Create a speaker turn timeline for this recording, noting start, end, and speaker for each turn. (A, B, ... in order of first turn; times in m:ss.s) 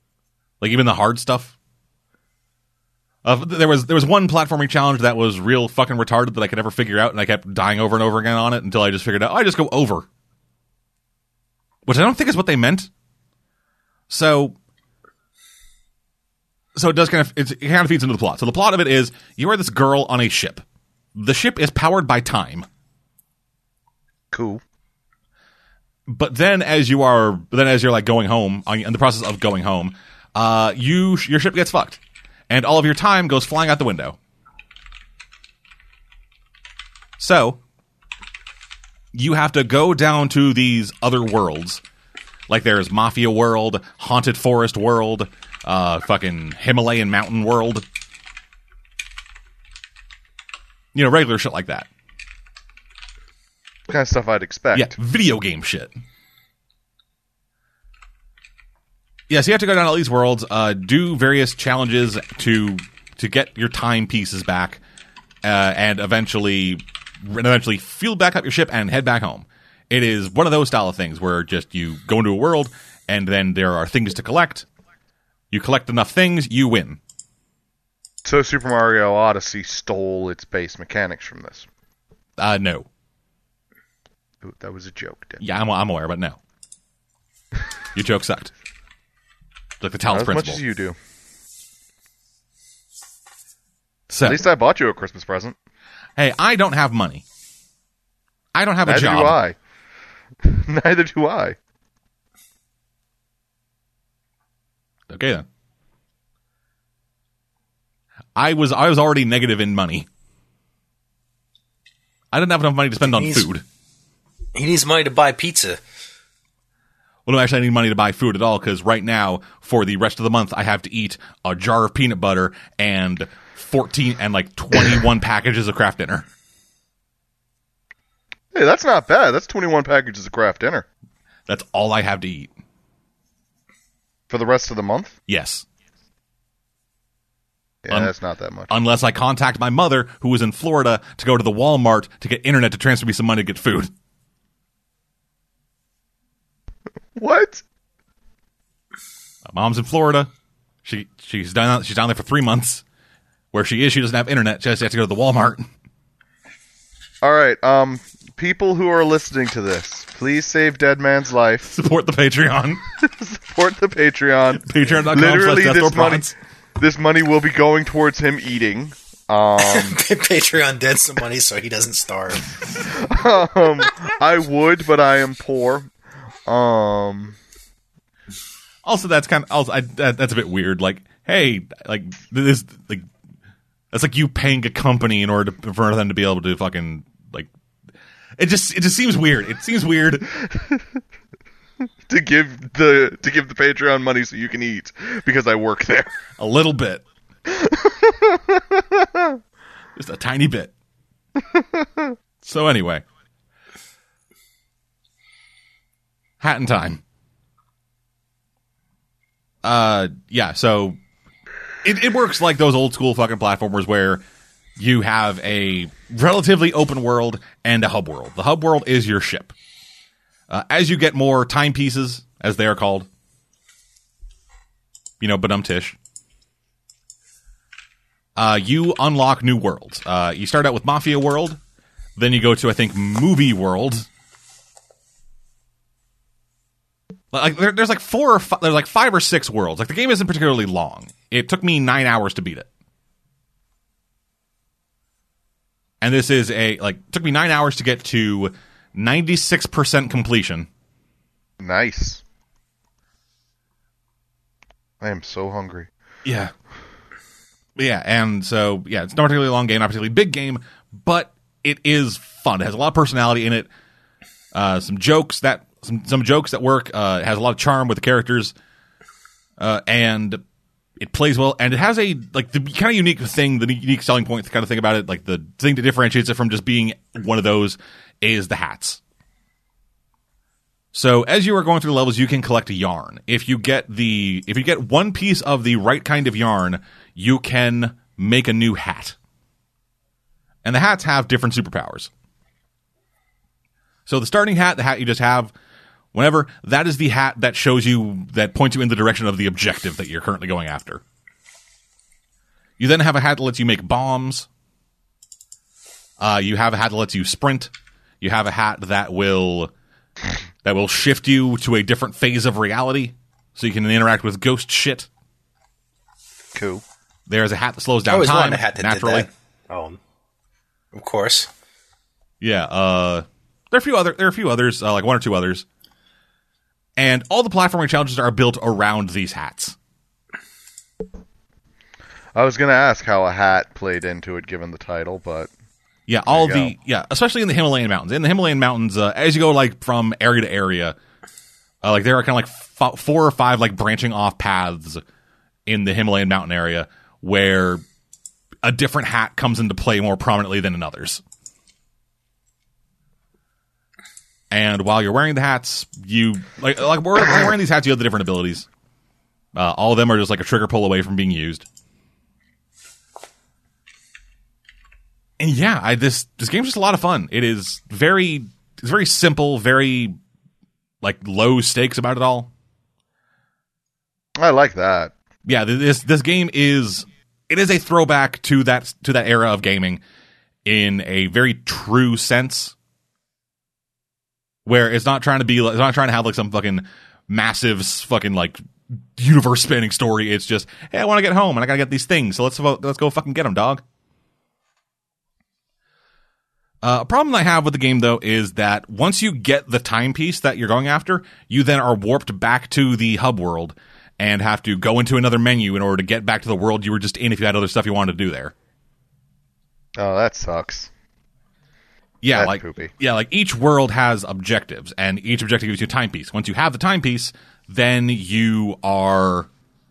0:00.6-0:01.6 A
0:03.2-0:10.1 A
0:11.9-0:12.9 A
0:14.1-0:14.6 A
0:16.8-0:20.6 A
0:21.2-0:22.7 A
0:24.3-0:24.6 B
0:26.1-0:34.2 A
0:37.2-0:37.6 A
0:39.1-0:41.8 A
0:42.5-0:47.8 A
0:50.9-0:51.9 A
0:53.9-0:54.9 B
0:54.7-0:55.9 A
0:59.3-1:04.8 A
1:05.4-1:14.7 A
1:15.5-1:17.0 A
1:18.2-1:21.7 B
1:22.4-1:22.9 A
1:24.4-1:25.4 B
1:25.4-1:26.4 A
1:28.0-1:28.5 A
1:29.8-1:30.6 A
1:30.1-1:31.0 B
1:34.1-1:34.4 A
1:34.2-1:35.6 B
1:36.2-1:37.2 A
1:38.6-1:39.4 A
1:38.8-1:39.6 B
1:40.4-1:41.6 B
1:45.1-1:45.5 A
1:48.4-1:50.1 A
1:52.3-1:53.6 A
1:53.0-1:53.5 C
1:54.6-1:55.8 C
1:57.3-2:06.2 A
2:08.5-2:10.9 B
2:11.5-2:12.5 A
2:14.3-2:15.2 B
2:15.3-2:15.7 A
2:17.8-2:18.7 B
2:18.7-2:23.9 A
2:27.2-2:27.6 B
2:29.5-2:30.3 A
2:30.8-2:32.8 A
2:33.5-2:35.7 A
2:37.2-2:41.7 B
2:41.6-2:42.8 A
2:43.0-2:50.0 B
2:44.6-2:46.3 A
2:49.6-2:52.5 C
2:52.9-2:55.9 B
2:56.5-2:57.4 B
2:58.8-3:03.1 A
3:03.9-3:07.5 A
3:08.4-3:10.4 A
3:10.4-3:11.0 B
3:12.1-3:16.1 B
3:16.4-3:17.0 A
3:17.5-3:19.4 B
3:20.0-3:20.7 A
3:21.5-3:22.2 B
3:22.4-3:23.0 A
3:26.4-3:27.0 A
3:29.6-3:31.0 A
3:31.8-3:34.2 A
3:34.8-3:39.5 A
3:40.5-3:43.1 A
3:45.2-3:46.0 A
3:48.4-3:51.6 A
3:52.2-3:54.1 A
3:57.3-4:02.7 A
4:06.0-4:10.7 A
4:11.6-4:12.2 B
4:15.0-4:15.9 B
4:16.2-4:16.5 A
4:17.8-4:23.7 A
4:24.5-4:28.5 A
4:29.6-4:30.4 A
4:31.0-4:39.0 A
4:40.9-4:49.2 A
4:50.6-4:52.1 A
4:54.1-4:55.5 A
4:56.1-5:01.0 A
5:02.8-5:04.5 A
5:06.2-5:09.7 A
5:10.6-5:15.1 A
5:16.5-5:16.8 B
5:17.3-5:19.3 A
5:18.1-5:20.0 C
5:20.9-5:21.5 C
5:22.4-5:25.7 A
5:27.0-5:29.8 A
5:32.4-5:35.5 B
5:36.1-5:41.0 A
5:36.3-5:36.7 B
5:41.8-5:45.0 A
5:45.7-5:47.8 A
5:48.6-5:51.2 A
5:54.5-5:58.7 A
5:59.5-6:01.7 A
6:05.4-6:10.2 A
6:11.0-6:12.5 A
6:14.4-6:15.1 B
6:15.5-6:20.0 A
6:20.6-6:22.7 A
6:24.7-6:28.6 A
6:29.2-6:33.8 A
6:36.8-6:48.5 A
6:50.0-6:50.9 B
6:52.2-6:59.5 A
6:52.4-6:52.9 B